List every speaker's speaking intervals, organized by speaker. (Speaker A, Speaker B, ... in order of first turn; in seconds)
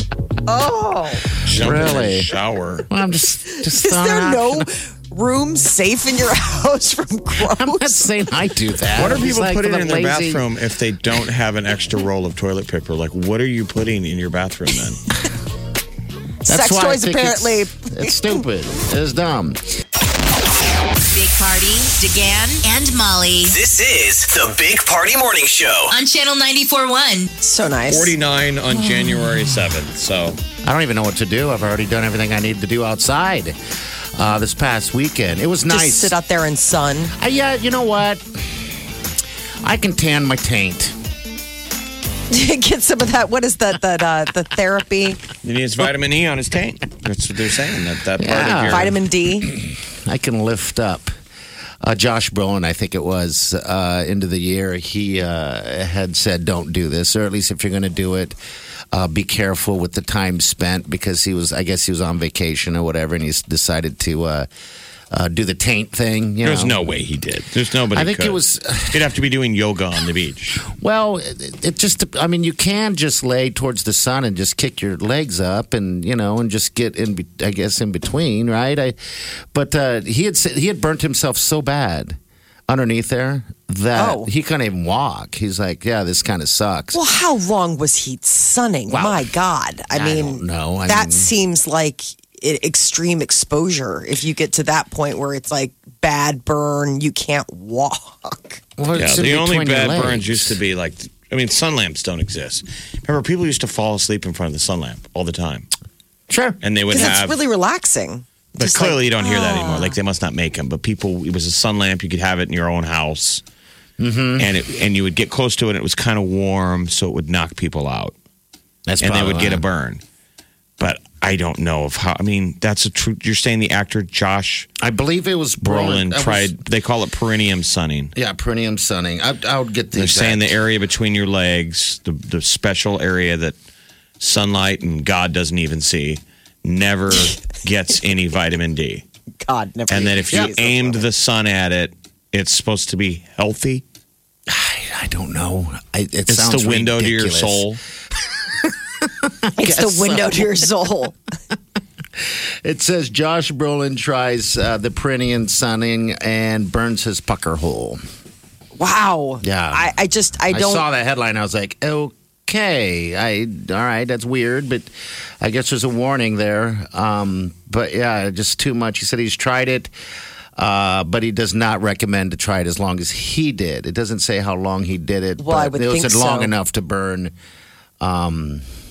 Speaker A: 0.4-1.3, 3.5-8.1, 16.5-18.4, 27.4-28.1, 35.7-37.1, 42.3-45.2, 48.6-49.5, 83.9-84.3, 86.9-98.6, 106.9-110.0, 139.4-141.0, 149.6-151.1, 158.8-160.8, 175.4-176.5
Speaker B: 1.4-2.9, 8.9-15.1, 27.9-30.4, 45.4-49.0, 66.4-70.6, 98.9-105.7, 106.6-107.4, 108.5-113.4, 114.4-118.1, 119.0-120.0, 120.8-124.7, 125.6-128.1, 129.9-133.5, 134.2-139.0, 139.9-143.8, 146.3-147.8
Speaker C: 1.5-2.3, 2.9-4.7, 7.4-10.4, 16.4-19.6, 28.9-29.6, 30.6-33.5, 34.1-36.1, 37.2-38.6, 39.6-40.9, 48.2-51.1, 51.8-58.4, 58.9-64.5, 65.1-66.8, 67.9-69.1, 70.6-79.0, 79.5-82.2, 82.7-87.0, 88.9-89.3, 89.9-91.3, 98.8-100.6, 106.3-106.6, 114.0-114.5, 118.8-119.6, 124.8-126.5, 128.2-130.5, 140.3-140.6, 144.5-147.7, 148.6-150.7, 152.6-158.0, 159.4-159.9, 160.5-169.9, 170.6-177.3, 178.0-178.6
Speaker D: 21.1-23.6, 25.9-27.3
Speaker E: 23.5-25.9